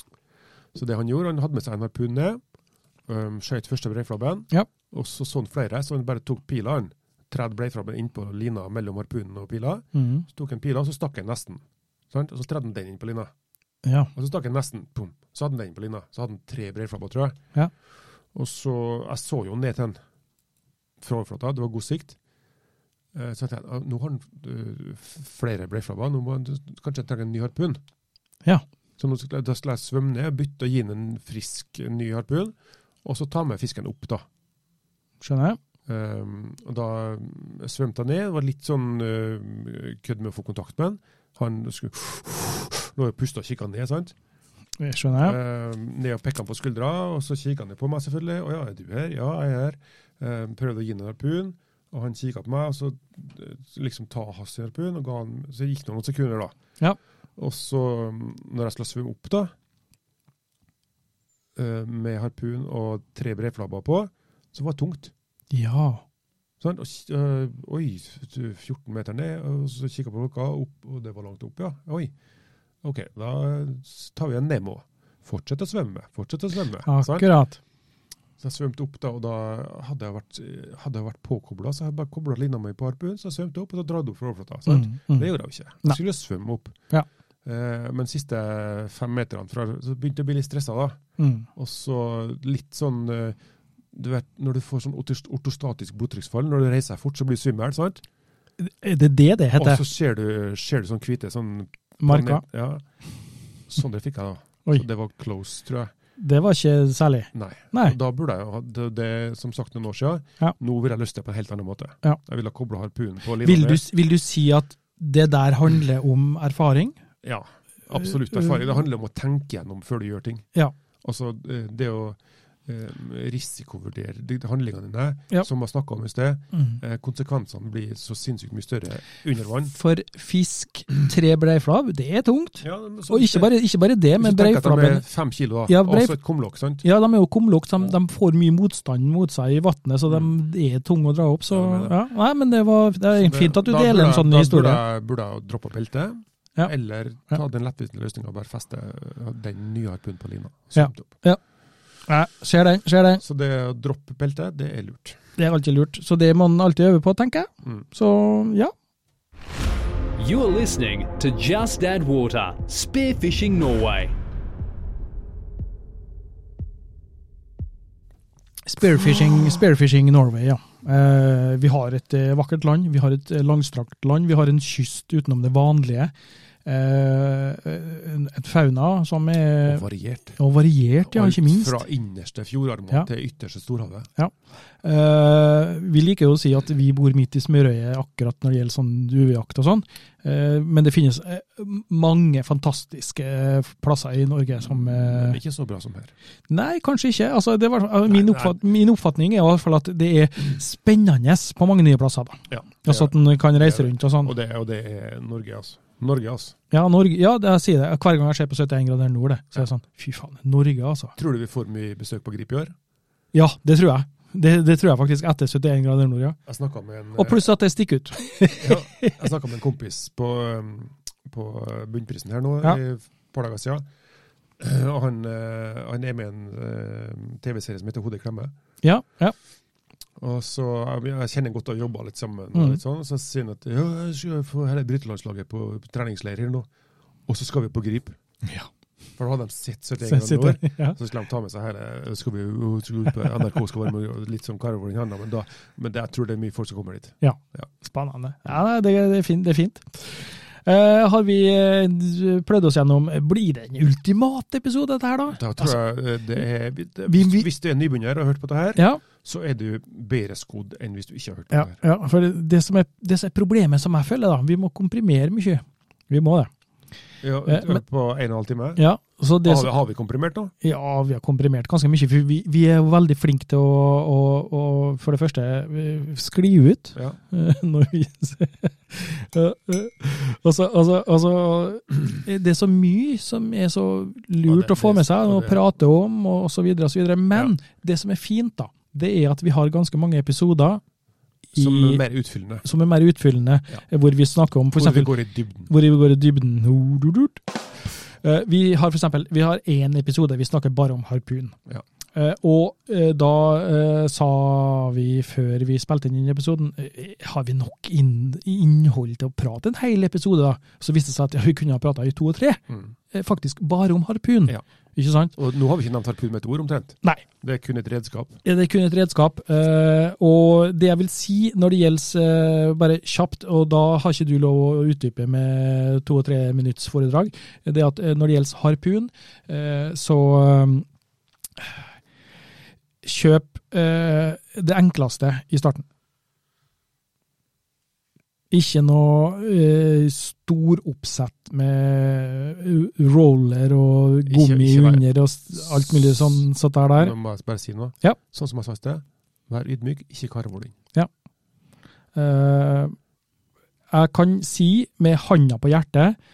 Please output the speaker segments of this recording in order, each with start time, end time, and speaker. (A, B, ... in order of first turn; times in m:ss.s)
0:00.7-0:02.4 A
0:03.1-0:13.3 A
0:09.9-0:10.2 B
0:13.8-0:14.1 B
0:14.1-0:17.4 A
0:18.3-0:20.0 A
0:21.0-0:22.2 A
0:23.1-0:27.8 A
0:29.0-0:34.2 A
0:35.2-0:35.6 B
0:35.9-0:44.1 A
0:44.8-0:45.4 B
0:45.2-0:56.5 A
0:57.4-0:59.5 A
1:01.6-1:05.1 A
1:05.5-1:06.0 B
1:06.6-1:12.1 A
1:12.8-1:17.3 A
1:16.8-1:17.6 B
1:18.4-1:26.8 A
1:24.7-1:25.3 B
1:27.4-1:31.0 A
1:31.2-1:31.5 B
1:31.5-1:33.4 A
1:33.9-1:38.0 A
1:38.6-1:39.8 B
1:39.6-1:42.8 A
1:42.0-1:42.4 B
1:43.7-1:45.9 A
1:46.2-1:48.0 B
1:47.3-1:53.8 A
1:53.4-1:56.9 B
1:57.2-2:00.4 A
2:01.0-2:09.7 A
2:06.5-2:06.8 B
2:09.7-2:15.0 B
2:12.6-2:13.5 A
2:14.2-2:16.8 A
2:15.7-2:16.2 B
2:16.8-2:24.8 B
2:21.5-2:22.0 A
2:23.1-2:31.1 A
2:30.7-2:31.4 B
2:32.1-2:33.2 B
2:33.2-2:35.2 A
2:35.4-2:38.7 B
2:40.2-2:44.1 C
2:48.6-2:56.1 B
2:56.6-2:59.8 B
2:59.6-3:00.4 A
3:00.4-3:01.8 B
3:01.1-3:04.1 A
3:04.2-3:15.4 B
3:14.6-3:16.1 A
3:16.5-3:24.3 B
3:18.1-3:18.6 A
3:22.5-3:26.6 A
3:26.7-3:31.1 B
3:31.2-3:32.7 A
3:33.3-3:36.4 B
3:36.4-3:37.5 A
3:37.1-3:39.2 B
3:38.5-3:43.8 A
3:44.6-3:48.5 A
3:48.8-3:49.3 B
3:50.2-3:56.7 A
3:52.5-3:52.8 B
3:57.3-3:58.2 A
3:59.2-4:07.6 A
4:00.0-4:01.0 B
4:07.2-4:15.8 B
4:15.3-4:21.8 A
4:17.1-4:17.4 B
4:18.8-4:19.0 B
4:21.5-4:26.5 B
4:27.2-4:28.8 A
4:27.5-4:27.8 B
4:28.8-4:29.7 B
4:29.4-4:30.5 A
4:30.6-4:50.8 B
4:44.5-4:45.6 A
4:51.5-4:52.0 B
4:51.6-4:52.6 A
4:52.6-4:55.1 B
4:54.7-4:55.7 A
4:55.7-5:01.5 B
5:02.1-5:15.3 B
5:15.3-5:18.4 A
5:18.4-5:30.8 B
5:33.0-5:35.8 B
5:38.5-5:47.1 B
5:44.2-5:46.4 A
5:47.0-5:50.8 A
5:52.1-5:52.9 B
5:53.9-5:56.2 B